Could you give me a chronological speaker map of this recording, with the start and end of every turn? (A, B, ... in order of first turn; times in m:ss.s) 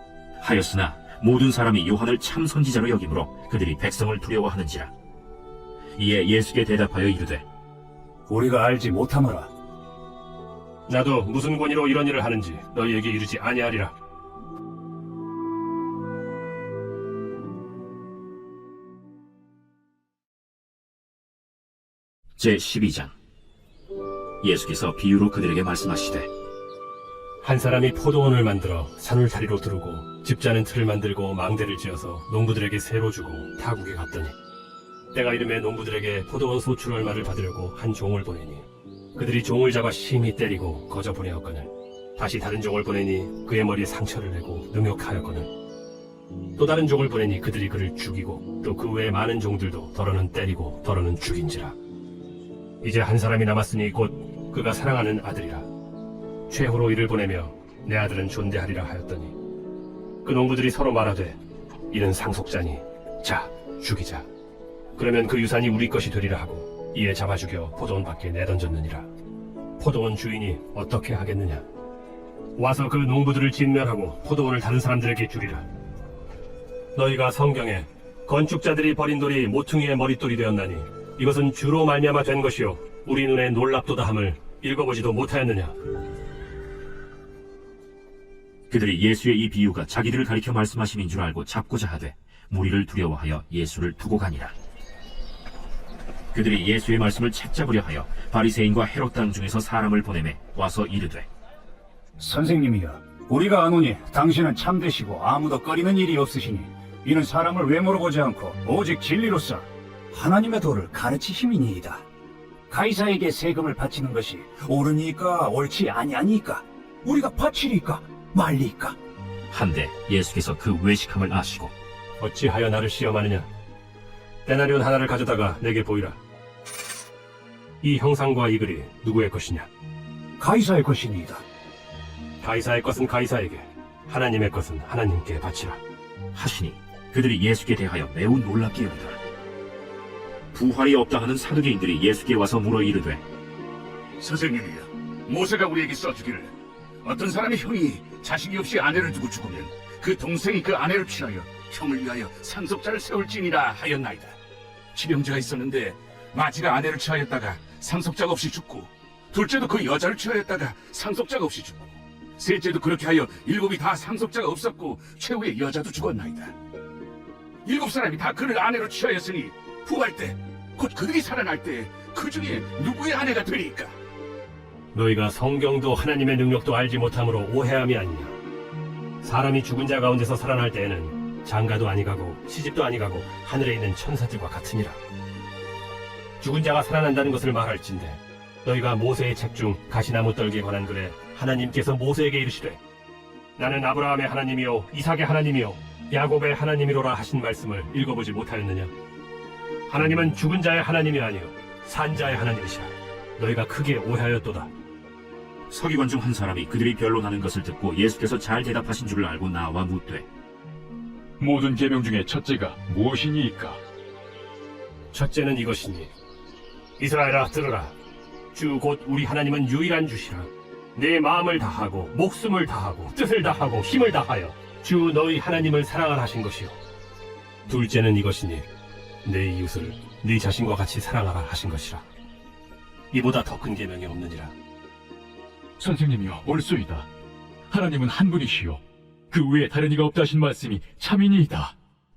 0:00.4-0:04.9 A
0:06.0-0:07.4 A
0:08.3-0:09.5 B
0:10.9-0:13.9 C
0:22.4-0:23.1 A
0:24.4-0:26.3 A
0:27.4-0:34.3 C
0:35.1-0:45.5 C
0:46.6-0:51.8 C
0:52.8-0:55.7 C
0:56.5-0:59.4 C
1:00.2-1:01.4 C
1:01.9-1:04.2 C
1:05.0-1:09.1 C
1:09.8-1:11.6 C
1:12.6-1:15.6 C
1:16.9-1:25.8 C
1:28.7-1:34.5 A
1:36.3-1:41.3 A
1:42.2-1:52.0 B
1:52.7-1:59.0 B
1:59.5-2:01.7 A
2:02.2-2:03.5 C
2:04.4-2:06.2 C
2:07.8-2:09.7 C
2:10.4-2:11.4 B
2:12.4-2:15.8 C
2:16.3-2:19.2 A
2:20.5-2:23.2 A
2:24.2-2:34.4 D
2:34.9-2:46.5 D
2:47.6-2:54.0 D
2:54.9-2:58.3 C
2:59.2-3:05.0 C
3:06.4-3:12.8 C
3:13.6-3:18.9 C
3:19.9-3:24.7 C
3:25.7-3:30.3 A
3:31.4-3:33.8 E
3:35.1-3:36.1 C
3:37.0-3:37.9 C
3:38.5-3:46.8 C
3:47.7-3:48.6 C
3:49.2-3:52.0 C
3:53.1-3:54.5 C
3:55.8-3:57.1 E
3:57.7-4:01.7 E